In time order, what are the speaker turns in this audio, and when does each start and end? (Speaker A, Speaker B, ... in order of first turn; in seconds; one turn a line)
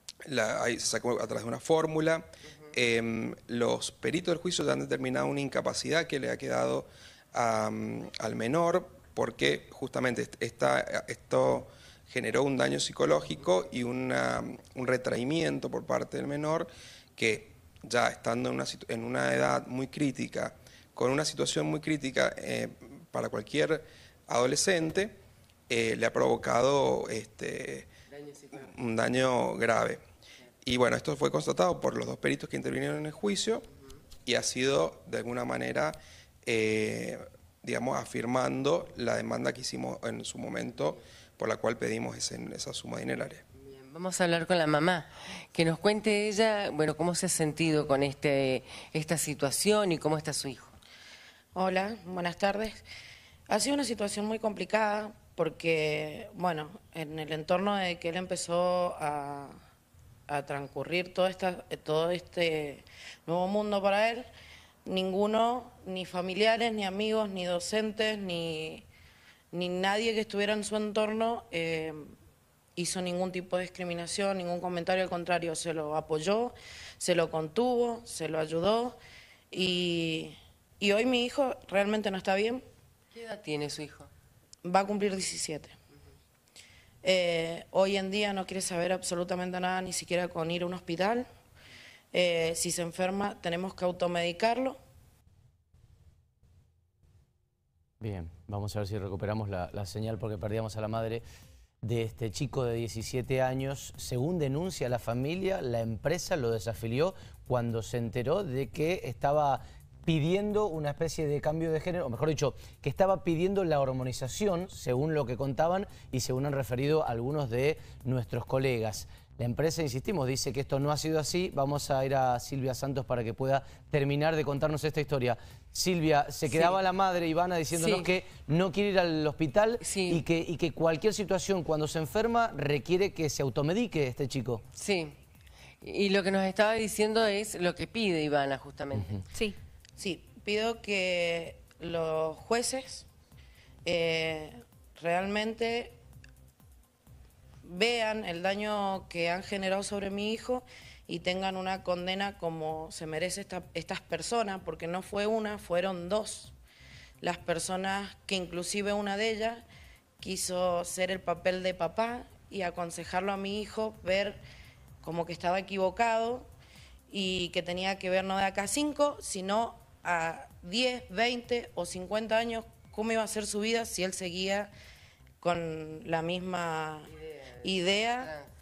Speaker A: 0.2-27.9
Speaker B: 28.1-28.7
Speaker A: 28.5-30.0
Speaker A: 30.6-33.6
Speaker A: 34.2-43.4
Speaker B: 43.5-50.8
Speaker C: 51.5-52.8
Speaker C: 53.5-59.5
Speaker C: 60.3-64.3
Speaker C: 64.8-68.8
Speaker C: 69.5-72.1
Speaker C: 72.8-79.0
Speaker C: 79.5-82.6
Speaker B: 83.1-84.1
Speaker C: 84.6-85.7
Speaker C: 87.0-91.3
Speaker C: 92.1-94.8
Speaker D: 98.0-101.2
Speaker D: 101.8-134.6
Speaker B: 126.5-126.8
Speaker B: 127.7-128.1
Speaker B: 129.8-130.2
Speaker B: 134.7-135.2
Speaker B: 135.8-139.2
Speaker C: 140.0-143.1
Speaker C: 143.8-145.9
Speaker C: 147.6-156.5
Speaker C: 157.2-159.6
Speaker C: 160.2-164.4
Speaker C: 165.0-166.5
Speaker C: 167.1-174.7
Speaker C: 175.4-177.1
Speaker B: 177.1-178.5
Speaker C: 177.6-178.3